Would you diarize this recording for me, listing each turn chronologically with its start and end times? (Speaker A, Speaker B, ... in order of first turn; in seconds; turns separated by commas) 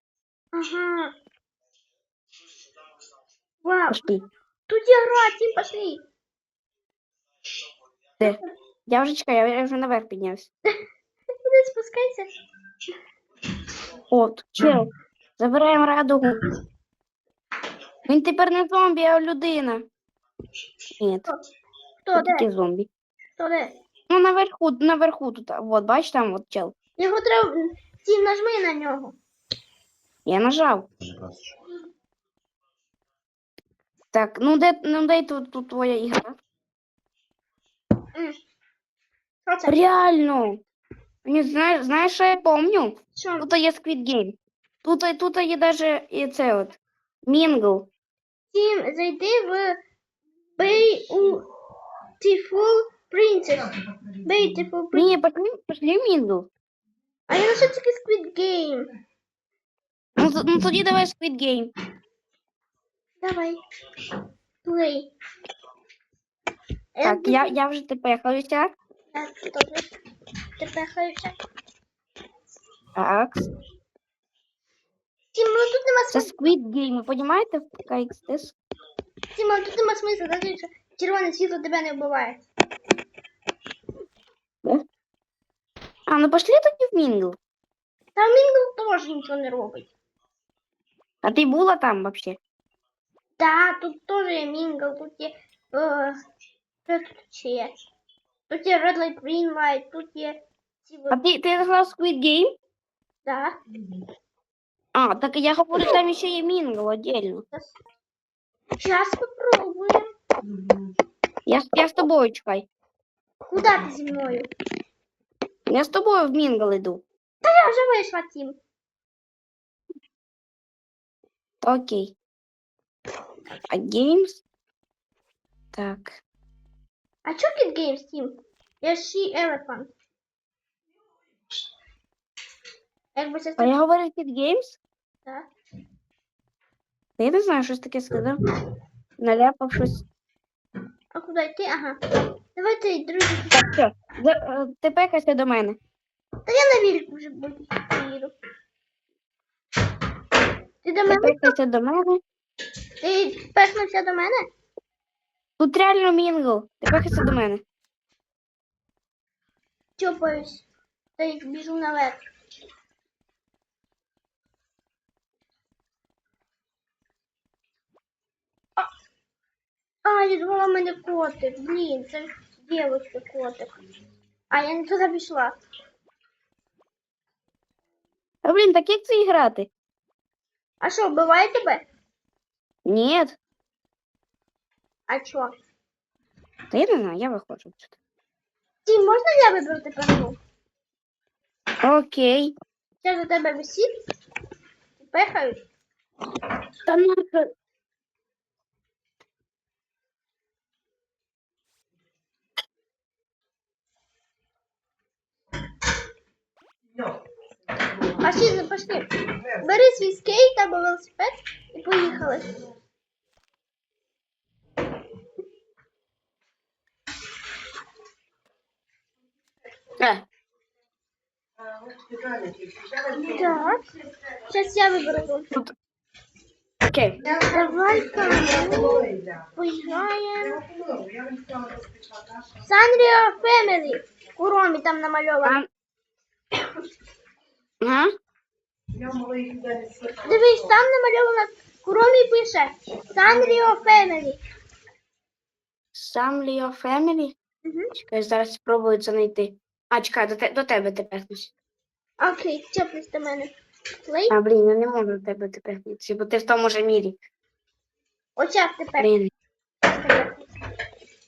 Speaker A: 0.5-1.1, Speaker A: 3.6-4.0, Speaker B: 3.9-4.2, Speaker A: 4.7-6.0, Speaker B: 8.2-10.5, Speaker A: 11.4-12.3, Speaker B: 14.1-16.4, Speaker B: 18.1-19.8, Speaker B: 21.0-21.3, Speaker A: 22.0-22.5, Speaker B: 22.1-22.9, Speaker A: 23.4-23.7, Speaker B: 24.1-26.8, Speaker A: 27.0-29.2, Speaker B: 30.3-30.9, Speaker B: 34.1-36.4, Speaker A: 39.5-39.8, Speaker B: 39.7-40.6, Speaker B: 41.2-47.9, Speaker A: 43.1-43.5, Speaker A: 48.5-49.8, Speaker A: 50.6-51.5, Speaker C: 50.9-51.4, Speaker A: 52.2-53.7, Speaker C: 53.5-54.7, Speaker A: 54.2-55.1, Speaker B: 54.9-56.5, Speaker A: 57.3-58.9, Speaker B: 60.2-61.7, Speaker A: 63.2-63.6, Speaker A: 64.6-65.1, Speaker A: 67.0-67.6, Speaker B: 67.0-68.7, Speaker A: 69.1-70.0, Speaker A: 70.6-71.4, Speaker B: 73.0-73.5, Speaker A: 75.3-76.4, Speaker B: 76.1-78.5, Speaker A: 79.3-82.4, Speaker B: 86.1-87.4, Speaker A: 88.2-89.9, Speaker B: 91.2-92.4, Speaker A: 93.4-96.2, Speaker A: 96.9-97.7, Speaker A: 98.5-101.2, Speaker B: 101.1-102.5, Speaker A: 103.2-103.6, Speaker C: 103.7-104.0, Speaker B: 105.0-107.4, Speaker A: 108.8-110.1, Speaker C: 110.4-111.0, Speaker B: 111.5-112.7, Speaker A: 113.4-114.5, Speaker B: 115.7-117.0, Speaker A: 117.4-118.6, Speaker B: 121.6-122.2, Speaker B: 123.7-124.4, Speaker B: 125.7-126.2, Speaker A: 127.2-129.9, Speaker A: 133.2-133.8, Speaker B: 133.6-134.8, Speaker B: 137.2-138.4, Speaker B: 139.2-140.0, Speaker A: 141.1-142.0, Speaker A: 142.6-143.7, Speaker B: 143.5-145.8, Speaker A: 146.5-148.3, Speaker A: 150.8-151.5, Speaker B: 151.1-152.2, Speaker A: 153.0-154.4, Speaker B: 155.6-157.6, Speaker A: 160.0-160.7, Speaker A: 161.2-162.2, Speaker A: 170.0-173.8, Speaker A: 174.5-175.6, Speaker B: 178.4-179.7, Speaker A: 180.8-181.8, Speaker B: 182.9-183.4, Speaker A: 185.1-185.5, Speaker B: 186.7-187.9, Speaker A: 188.8-190.4, Speaker B: 191.8-192.5, Speaker A: 193.0-193.9, Speaker A: 195.0-195.6, Speaker B: 196.9-197.5, Speaker C: 206.9-210.2, Speaker A: 208.2-212.6, Speaker B: 220.0-220.2, Speaker C: 221.6-223.7, Speaker A: 223.1-223.8, Speaker A: 224.5-225.5, Speaker B: 226.9-227.2, Speaker C: 227.2-229.8, Speaker A: 227.5-230.6, Speaker C: 230.3-234.0, Speaker A: 232.7-235.6, Speaker B: 237.8-238.1, Speaker C: 238.9-240.8, Speaker A: 240.2-244.4, Speaker C: 243.1-244.2, Speaker B: 245.9-247.3, Speaker A: 247.6-247.9, Speaker B: 248.0-251.5, Speaker A: 252.2-253.5, Speaker A: 254.1-254.3, Speaker B: 254.3-257.2, Speaker A: 258.4-259.1, Speaker B: 259.0-259.3, Speaker A: 259.9-260.5